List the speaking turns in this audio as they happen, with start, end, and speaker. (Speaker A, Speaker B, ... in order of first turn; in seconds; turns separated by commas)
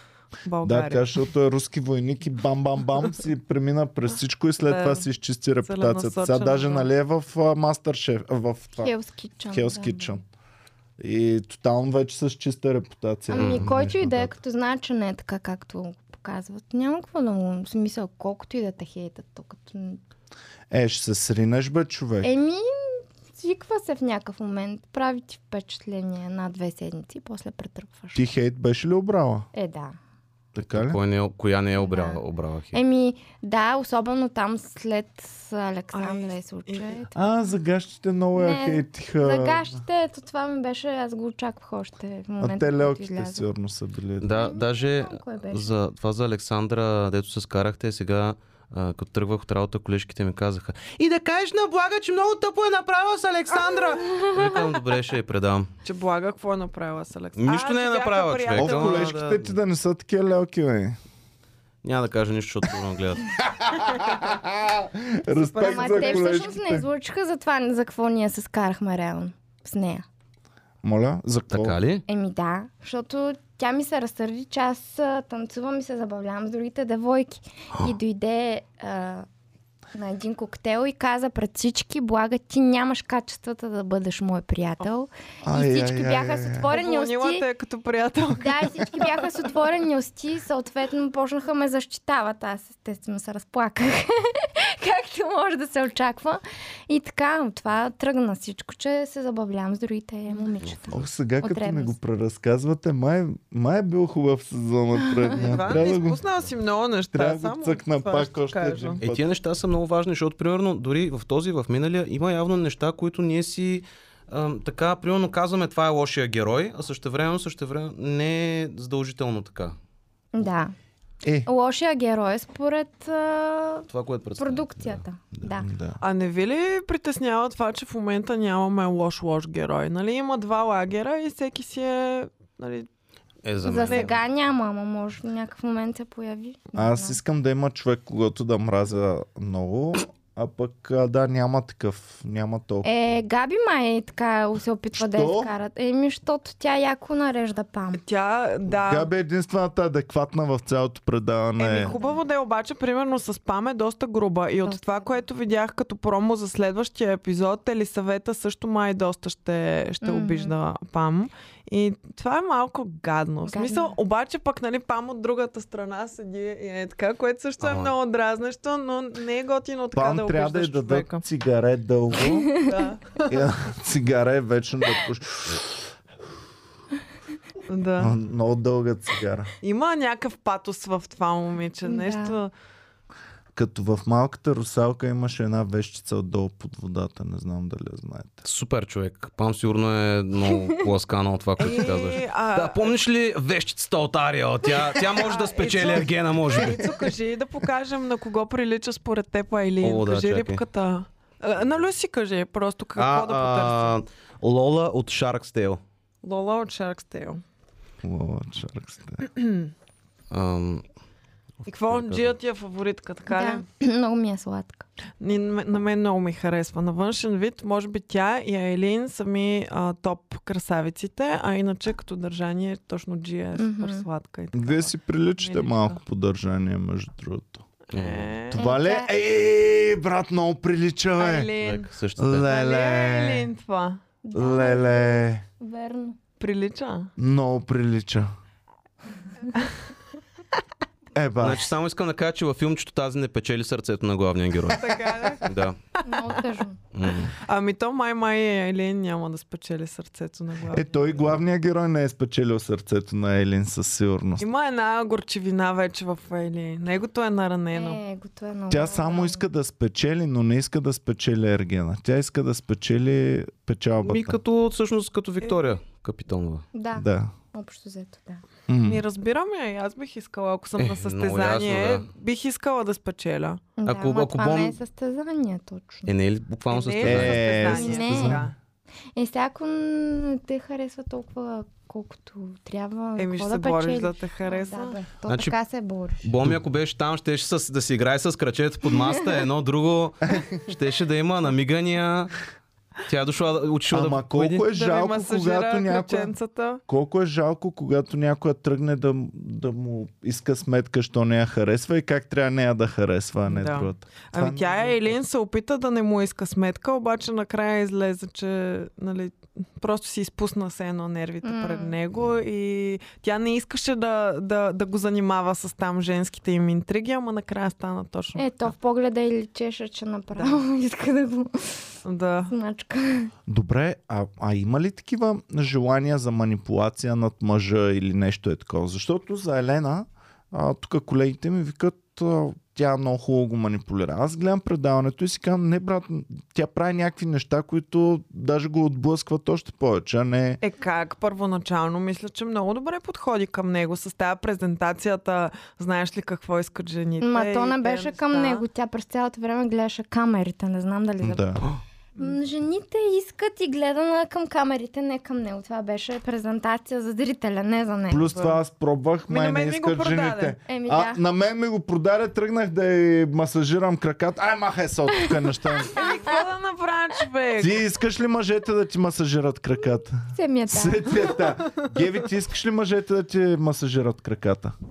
Speaker A: 0.5-1.1, Speaker B: 0.6-8.9, Speaker A: 4.7-5.1, Speaker A: 5.6-6.9, Speaker C: 8.8-10.2, Speaker B: 9.5-10.2, Speaker B: 11.0-14.3, Speaker C: 13.3-20.0, Speaker D: 13.3-13.7, Speaker B: 20.7-22.3, Speaker C: 22.2-28.2, Speaker B: 28.1-29.5, Speaker C: 29.5-30.0, Speaker B: 30.6-31.0, Speaker D: 30.6-32.8, Speaker C: 31.8-32.2, Speaker C: 32.7-37.2, Speaker A: 35.9-37.0, Speaker B: 37.1-39.8, Speaker C: 38.4-43.5, Speaker B: 42.4-44.4, Speaker D: 44.2-55.7, Speaker C: 44.4-45.8, Speaker A: 55.9-59.1, Speaker D: 57.4-59.6, Speaker B: 58.5-61.0, Speaker D: 61.8-63.3, Speaker B: 63.5-66.9, Speaker A: 65.3-66.5, Speaker C: 65.6-70.0, Speaker B: 70.8-71.8, Speaker D: 71.5-72.0, Speaker C: 72.1-79.3, Speaker C: 79.9-87.5, Speaker B: 85.4-86.7, Speaker A: 86.7-89.2, Speaker C: 88.4-102.0, Speaker B: 100.9-106.2, Speaker A: 105.3-109.0, Speaker B: 107.1-109.3, Speaker D: 109.0-119.8, Speaker C: 120.3-120.7, Speaker B: 121.2-121.5, Speaker C: 121.5-125.7, Speaker D: 123.9-125.0, Speaker B: 125.6-126.0, Speaker A: 126.0-132.9, Speaker D: 133.4-134.2, Speaker C: 133.7-137.2, Speaker A: 133.8-134.1, Speaker B: 136.8-142.9, Speaker C: 142.8-148.0, Speaker B: 144.9-145.5, Speaker A: 148.0-149.1, Speaker B: 148.7-151.9, Speaker A: 151.6-171.2, Speaker C: 151.8-152.2, Speaker C: 154.6-155.2, Speaker C: 160.0-160.6, Speaker C: 163.5-163.9, Speaker D: 167.6-168.0, Speaker B: 169.9-172.6, Speaker A: 172.5-173.3, Speaker B: 173.2-175.9, Speaker A: 177.7-178.1, Speaker B: 178.0-179.5, Speaker A: 179.6-182.5, Speaker C: 181.8-182.4, Speaker B: 183.6-188.4, Speaker D: 188.4-196.8, Speaker A: 191.6-192.9, Speaker A: 194.9-204.0, Speaker D: 199.8-200.6, Speaker D: 203.0-205.8, Speaker A: 206.2-207.4, Speaker B: 208.0-209.3, Speaker A: 209.4-209.7, Speaker D: 210.3-210.9, Speaker A: 211.7-213.6, Speaker D: 211.8-212.4, Speaker C: 213.3-214.8, Speaker A: 215.2-226.0, Speaker C: 223.6-224.1, Speaker B: 224.5-227.7, Speaker A: 227.9-228.6, Speaker D: 227.9-228.4, Speaker B: 228.5-231.5, Speaker C: 228.6-229.1, Speaker A: 231.2-234.0, Speaker D: 231.6-232.5, Speaker B: 232.2-233.5, Speaker C: 234.2-236.2, Speaker B: 234.3-235.4, Speaker A: 236.4-237.1, Speaker B: 237.2-238.3, Speaker B: 241.1-241.7, Speaker D: 241.4-245.8, Speaker A: 244.7-245.5, Speaker C: 246.0-246.8, Speaker D: 246.9-247.3, Speaker A: 247.4-251.4, Speaker B: 250.7-254.5, Speaker A: 254.4-258.0, Speaker C: 257.7-259.4, Speaker B: 258.7-264.4, Speaker D: 264.0-266.7, Speaker C: 266.7-268.4, Speaker B: 267.0-267.3, Speaker B: 268.7-269.0, Speaker A: 268.9-273.7, Speaker D: 270.8-272.1, Speaker C: 273.8-276.1, Speaker D: 273.9-274.8, Speaker D: 276.1-277.6, Speaker A: 276.7-278.5, Speaker B: 277.0-278.5, Speaker C: 277.6-278.4, Speaker C: 279.1-286.2, Speaker A: 283.2-285.0, Speaker D: 285.3-285.6, Speaker D: 286.2-292.3, Speaker D: 293.1-294.6, Speaker B: 293.9-296.3, Speaker A: 294.6-296.8, Speaker B: 296.9-305.2, Speaker A: 303.4-318.7, Speaker C: 311.4-311.9, Speaker C: 318.4-321.9, Speaker A: 320.4-320.6, Speaker A: 322.1-322.5, Speaker C: 322.5-323.3, Speaker B: 323.5-340.6, Speaker A: 340.6-348.6, Speaker C: 347.2-351.7, Speaker B: 351.2-351.6, Speaker C: 352.2-358.3, Speaker B: 358.1-366.0, Speaker A: 358.3-358.6, Speaker A: 359.3-360.6, Speaker C: 360.7-361.2, Speaker A: 365.9-367.8, Speaker C: 365.9-366.4, Speaker B: 367.6-374.7, Speaker C: 370.3-371.4